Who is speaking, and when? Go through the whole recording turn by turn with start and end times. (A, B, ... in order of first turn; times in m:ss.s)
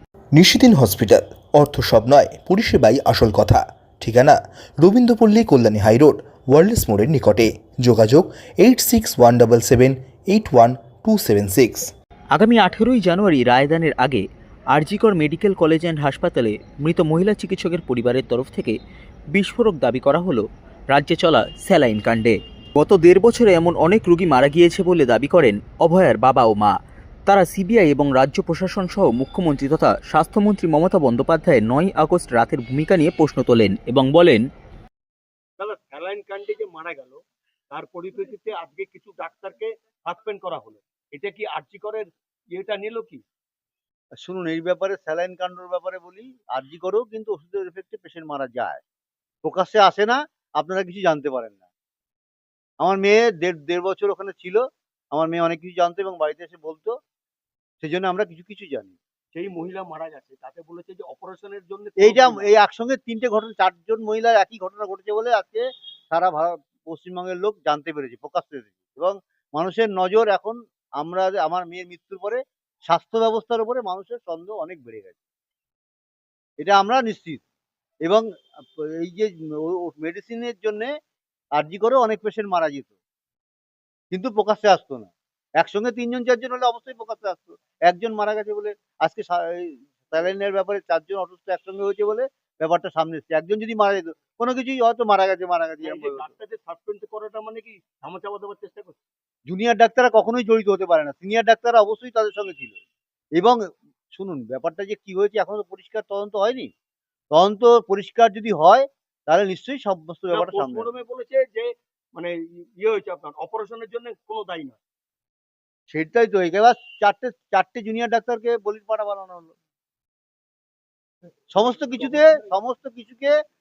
0:00.3-0:11.9 A
0:12.3-0:18.8 B
0:19.3-0:26.7 B
0:27.3-0:34.4 B
0:35.6-0:43.2 C
0:44.2-0:48.8 D
0:49.4-0:51.6 D
0:52.8-0:56.9 D
0:57.8-0:59.0 D
0:59.3-1:02.5 C
1:02.0-1:15.2 D
1:16.6-1:17.4 D
1:18.8-1:20.9 D
1:21.6-1:22.9 D
1:24.1-1:36.2 D
1:35.8-1:39.0 C
1:39.5-1:42.8 D
1:43.3-1:46.7 D
1:47.3-1:50.9 D
1:50.3-1:54.8 C
1:55.9-1:59.5 D
2:01.5-2:03.3 D